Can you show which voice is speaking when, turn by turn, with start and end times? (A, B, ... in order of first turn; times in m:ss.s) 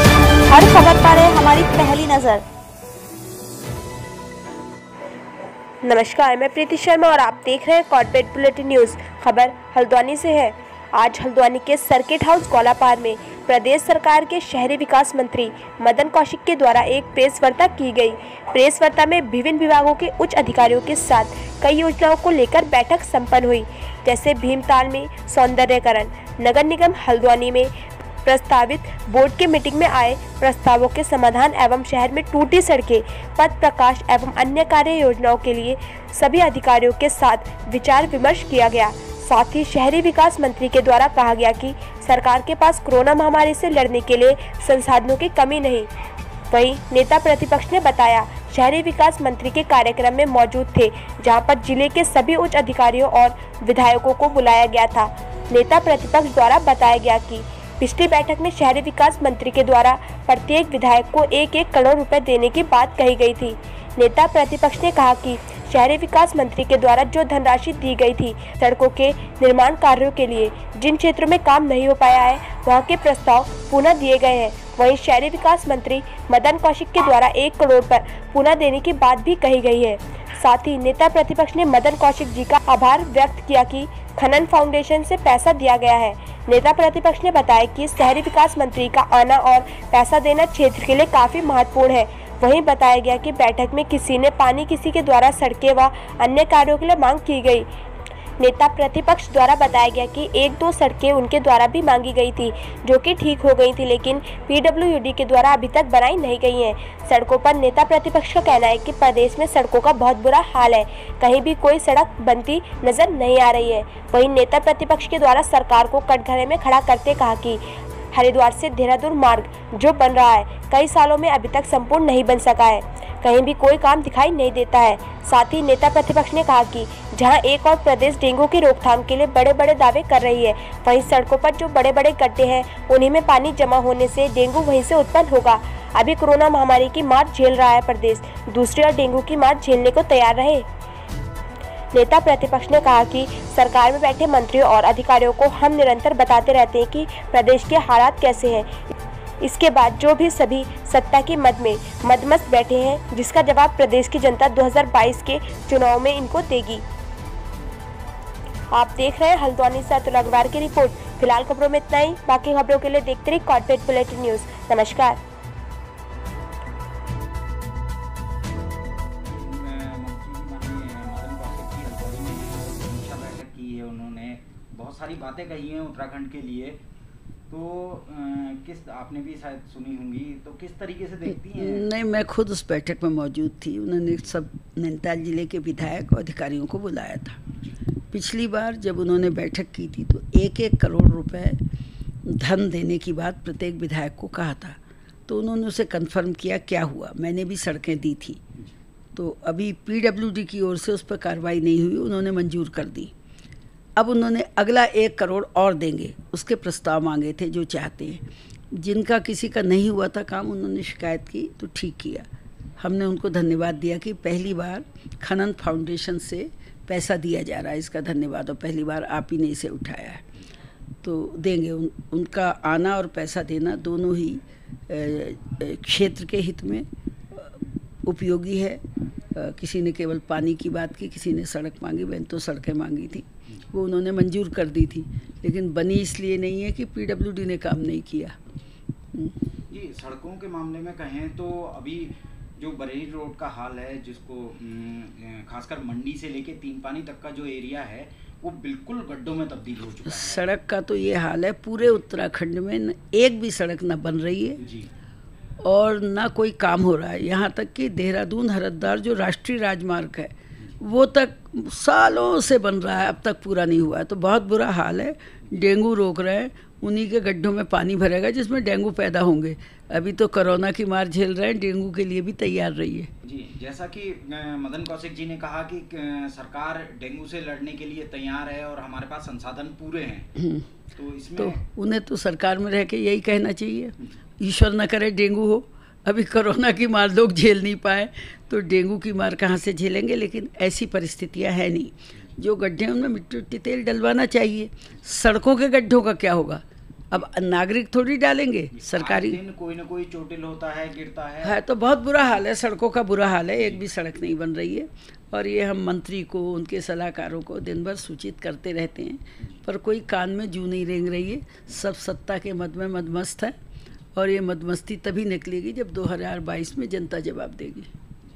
0:00.5-0:02.4 A
0:05.8-0:27.7 A
0:28.2-0:45.9 A
0:46.5-1:37.7 A
1:38.4-2:20.6 A
2:21.9-2:28.7 A
2:29.4-2:36.8 A
2:38.7-2:45.2 A
2:49.2-2:56.8 B
2:57.5-3:01.9 B
3:01.5-3:07.4 C
3:08.1-3:11.6 C
3:12.2-3:18.4 C
3:19.1-3:23.1 C
3:24.0-3:28.2 C
3:28.7-3:32.3 C
3:32.8-3:40.2 C
3:41.0-3:58.4 C
3:59.7-4:10.5 B
4:10.0-4:14.6 C
4:14.6-4:14.9 B
4:15.6-4:33.1 C
4:33.2-4:40.3 B
4:40.4-4:40.6 C
4:41.0-4:41.6 B
4:41.4-4:59.4 C
4:58.7-5:01.6 B
5:01.4-5:13.6 C
5:14.1-5:17.9 C